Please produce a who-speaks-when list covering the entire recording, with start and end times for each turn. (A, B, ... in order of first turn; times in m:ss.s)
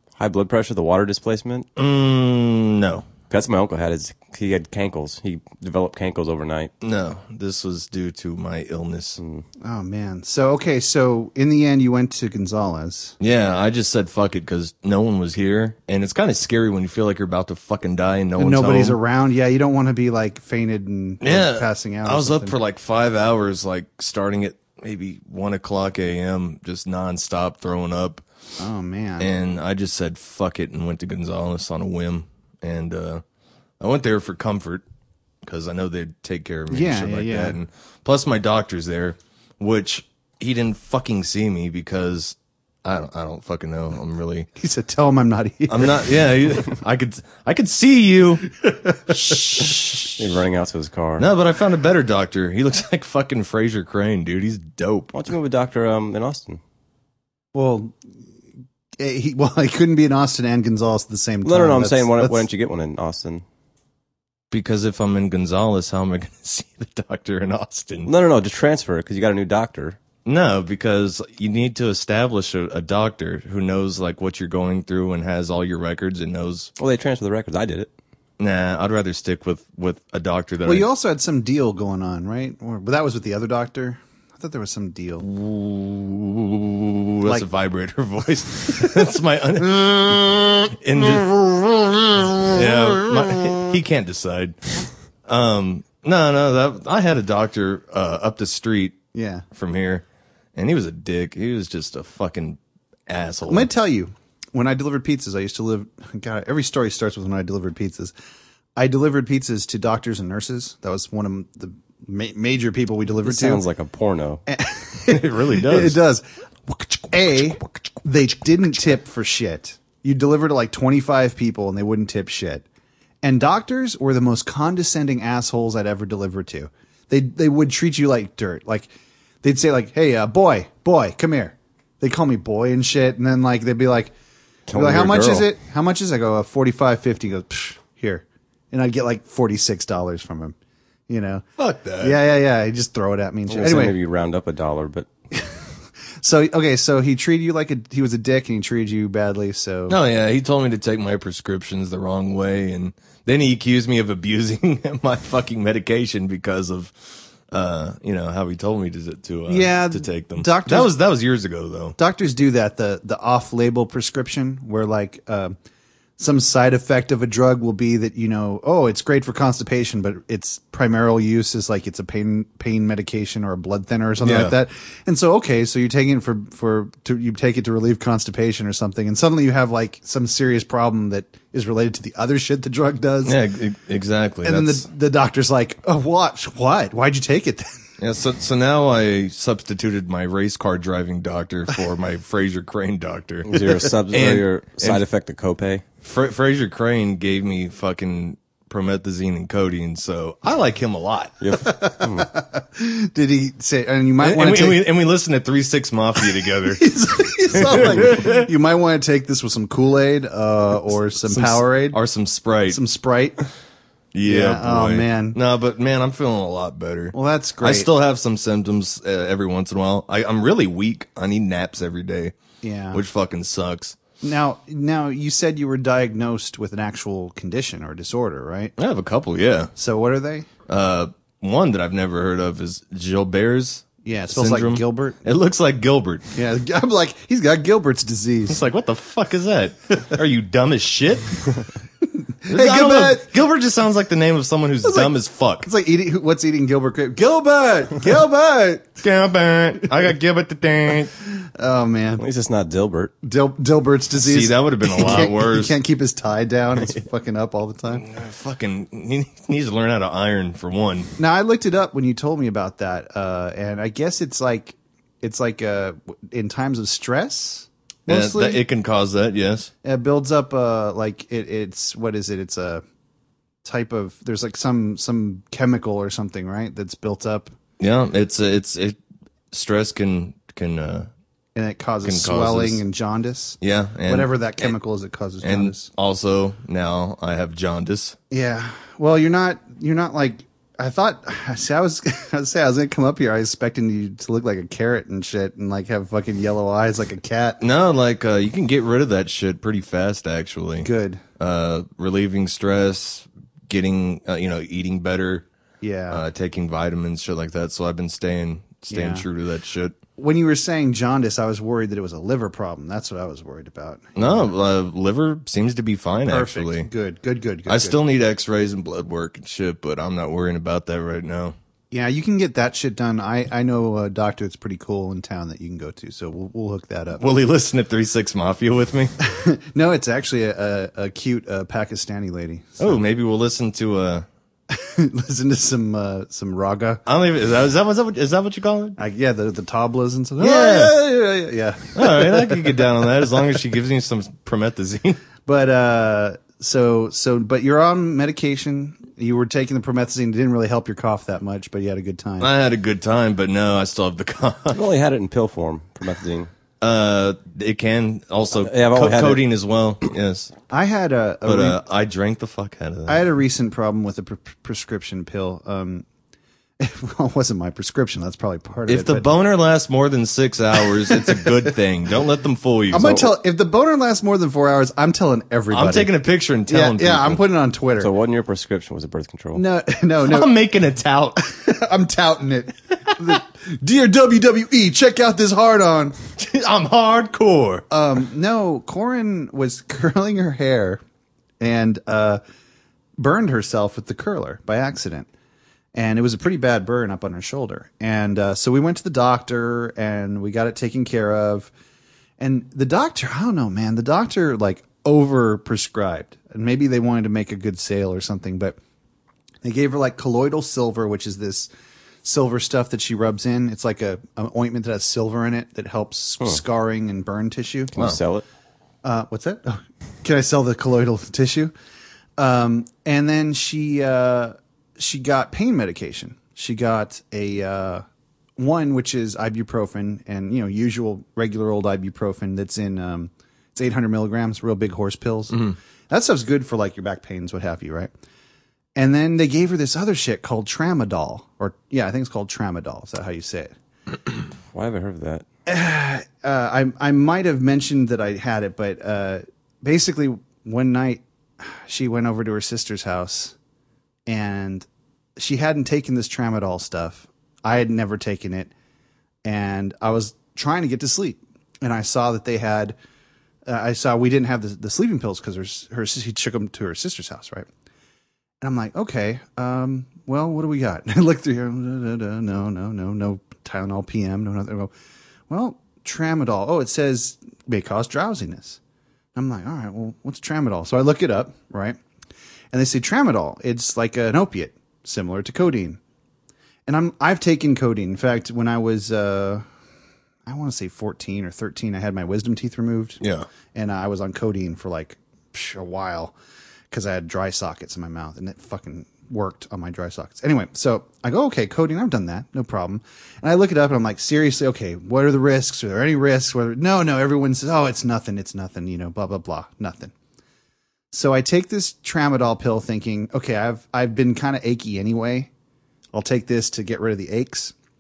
0:00.2-0:01.7 A
0:01.8-0:03.1 B
0:03.3-0:06.7 A
0:06.8-0:09.2 B
0:09.2-0:09.4 A
0:09.6-0:13.2 C
0:13.2-0:19.0 B
0:18.4-0:22.6 C
0:21.2-0:28.2 B
0:28.6-0:29.3 C
0:29.2-0:33.2 B
0:33.8-0:34.8 B
0:35.4-0:44.5 B
0:36.7-0:37.6 C
0:44.6-0:46.1 C
0:45.7-0:48.5 B
0:48.6-0:49.7 C
0:49.4-0:50.1 B
0:50.0-0:51.2 A
0:51.2-0:55.2 B
0:55.1-0:56.6 A
0:57.5-0:58.0 C
0:59.0-1:02.5 C
1:01.4-1:03.4 A
1:04.5-1:08.1 B
1:08.1-1:10.0 A
1:10.2-1:16.7 B
1:16.8-1:17.9 A
1:18.4-1:20.9 B
1:20.6-1:25.3 C
1:25.2-1:34.6 B
1:35.3-1:39.0 B
1:39.1-1:39.4 C
1:39.5-1:40.0 B
1:40.6-1:43.7 B
1:43.5-1:48.1 C
1:48.8-1:53.6 C
1:53.2-1:54.4 A
1:54.5-2:02.6 C
1:55.1-1:56.0 B
2:03.2-2:08.9 C
2:09.4-2:14.1 C
2:14.7-2:15.5 A
2:14.7-2:20.6 C
2:21.1-2:21.4 C
2:21.6-2:22.2 B
2:22.0-2:24.0 C
2:23.5-2:25.1 A
2:26.2-2:30.0 C
2:29.9-2:36.9 B
2:37.5-2:42.0 B
2:39.5-2:40.9 C
2:42.0-2:45.6 C
2:46.2-3:03.4 C
2:54.2-2:54.5 B
3:03.2-3:04.8 B
3:04.4-3:07.8 C
3:08.0-3:13.6 B
3:13.5-3:15.8 A
3:14.1-3:15.0 B
3:16.0-3:21.4 B
3:21.4-3:22.3 A
3:21.6-3:24.8 C
3:24.2-3:27.0 B
3:26.2-3:32.0 C
3:27.5-3:28.5 B
3:31.3-3:32.8 B
3:32.7-3:33.4 C
3:34.1-3:42.4 B
3:34.2-3:35.4 C
3:37.1-3:37.9 C
3:42.6-3:43.0 C
3:42.9-3:44.0 B
3:44.2-3:48.7 C
3:48.8-3:49.7 B
3:49.8-3:50.5 C
3:50.7-3:56.3 B
3:54.0-3:55.2 C
3:56.3-3:58.6 C
3:58.5-4:01.3 B
4:02.2-4:03.3 C
4:02.5-4:05.7 B
4:04.8-4:09.0 C
4:09.0-4:11.1 B
4:11.3-4:12.2 C
4:12.2-4:13.1 A
4:13.2-4:18.1 C
4:14.2-4:15.8 B
4:17.9-4:21.1 B
4:21.2-4:28.6 C
4:28.1-4:29.7 B
4:29.8-4:32.8 C
4:33.6-4:37.5 C
4:37.8-4:39.0 B
4:39.5-4:41.1 B
4:41.6-4:45.9 C
4:42.0-4:42.8 B
4:43.6-4:44.7 B
4:45.4-4:48.2 B
4:48.3-4:57.6 C
4:57.6-5:05.5 B
5:00.8-5:01.2 C
5:05.8-5:06.2 C
5:06.1-5:10.0 B
5:08.9-5:09.3 C
5:10.2-5:14.5 C
5:14.2-5:16.9 B
5:16.3-5:18.0 C
5:17.7-5:21.6 B
5:21.9-5:27.2 C
5:27.2-5:29.1 B
5:29.2-5:33.0 C
5:32.8-5:34.3 B
5:34.7-5:37.0 C
5:37.1-5:39.0 B
5:39.0-5:43.3 C
5:40.4-5:41.0 B
5:41.9-5:45.2 B
5:45.5-5:52.5 C
5:52.4-5:54.8 B
5:54.7-5:56.5 A
5:56.8-6:00.5 B
5:58.6-5:59.4 A
6:00.7-6:01.8 C
6:01.4-6:03.2 B
6:03.1-6:06.1 C
6:06.8-6:09.3 C
6:08.9-6:13.2 B
6:10.9-6:11.7 C
6:12.9-6:16.1 C
6:15.7-6:17.4 B
6:16.7-6:18.1 C
6:18.0-6:19.6 A
6:19.6-6:20.5 C
6:20.3-6:21.4 B
6:21.4-6:26.2 C
6:26.4-6:27.8 B
6:27.9-6:31.0 C
6:31.6-6:32.4 C
6:33.2-6:35.3 C
6:35.9-6:41.7 C
6:42.4-6:48.8 C
6:49.6-6:51.7 C
6:52.2-6:58.0 C
6:57.9-6:58.4 A
6:59.0-7:01.7 C
7:02.4-7:08.0 C
7:08.6-7:18.1 C
7:19.0-7:23.7 C
7:24.7-7:25.4 A
7:25.7-7:33.6 C
7:34.3-7:34.9 C
7:35.4-7:38.7 C
7:39.4-7:43.0 C
7:43.7-7:47.7 C
7:48.6-7:54.9 C
7:55.5-7:58.8 C
7:59.4-8:02.0 C
8:02.7-8:06.0 C
8:06.9-8:09.7 C
8:10.5-8:13.2 C
8:13.2-8:13.5 B
8:13.7-8:16.4 C
8:16.9-8:30.1 C
8:31.1-8:35.5 C
8:36.1-8:37.7 C